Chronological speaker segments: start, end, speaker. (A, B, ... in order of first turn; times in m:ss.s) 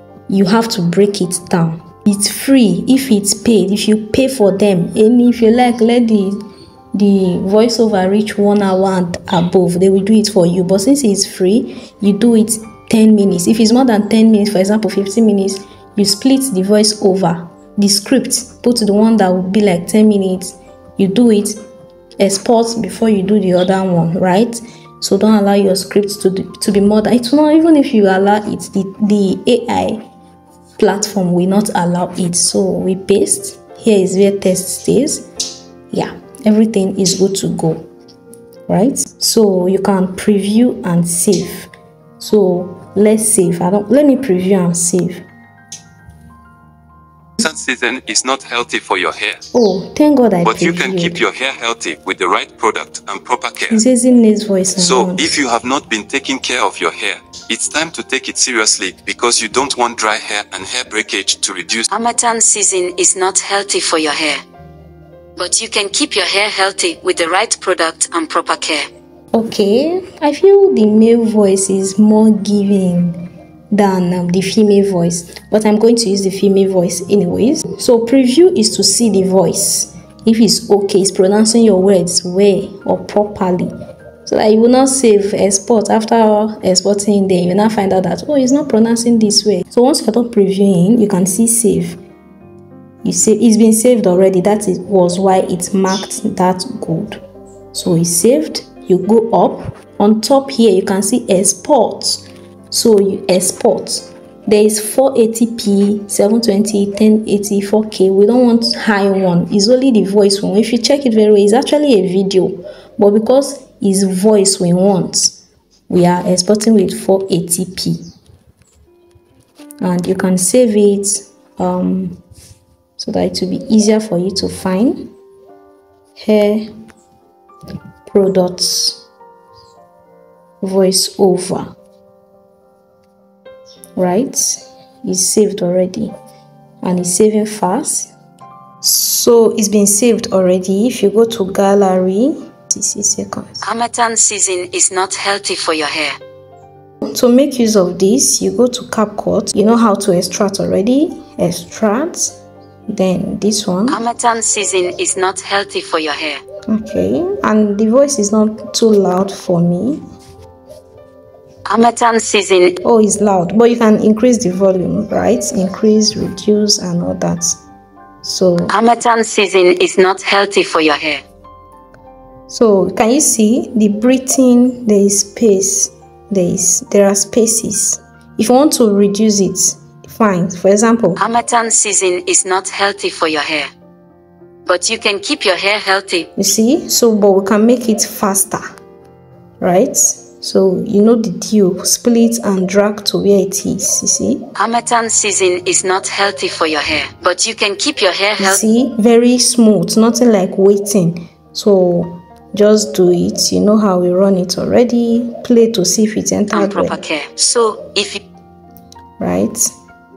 0:00.3-0:06.4 A
0:06.9-0:21.6 A
0:22.2-0:30.0 A
0:30.8-0:35.3 A
0:35.9-0:37.9 A
0:38.7-0:45.2 A
0:47.4-0:49.4 B
0:49.5-0:51.2 A
0:50.4-0:53.8 B
0:53.7-0:55.4 A
0:54.8-1:01.9 B
1:01.9-1:04.4 C
1:05.4-1:08.8 C
1:09.3-1:23.7 A
1:24.3-1:32.0 A
1:33.0-1:37.2 A
1:37.7-1:58.1 A
1:59.8-2:02.2 A
2:03.0-2:05.1 A
2:06.2-2:06.7 A
2:08.1-2:09.1 A
2:10.6-2:11.7 A
2:14.0-2:16.1 A
2:16.8-2:18.1 A
2:18.8-2:23.6 A
2:23.6-2:26.1 C
2:27.0-2:32.4 A
2:32.9-2:34.0 A
2:33.9-2:36.4 C
2:36.7-2:40.0 A
2:41.7-2:42.8 C
2:42.8-2:47.6 A
2:48.2-2:48.7 A
2:48.7-2:51.2 C
2:52.5-3:01.2 A
3:01.2-3:03.7 C
3:04.7-3:06.3 C
3:06.4-3:08.6 A
3:09.6-3:14.4 A
3:14.6-3:18.6 C
3:18.4-3:27.0 A
3:26.5-3:28.2 C
3:29.2-3:29.7 A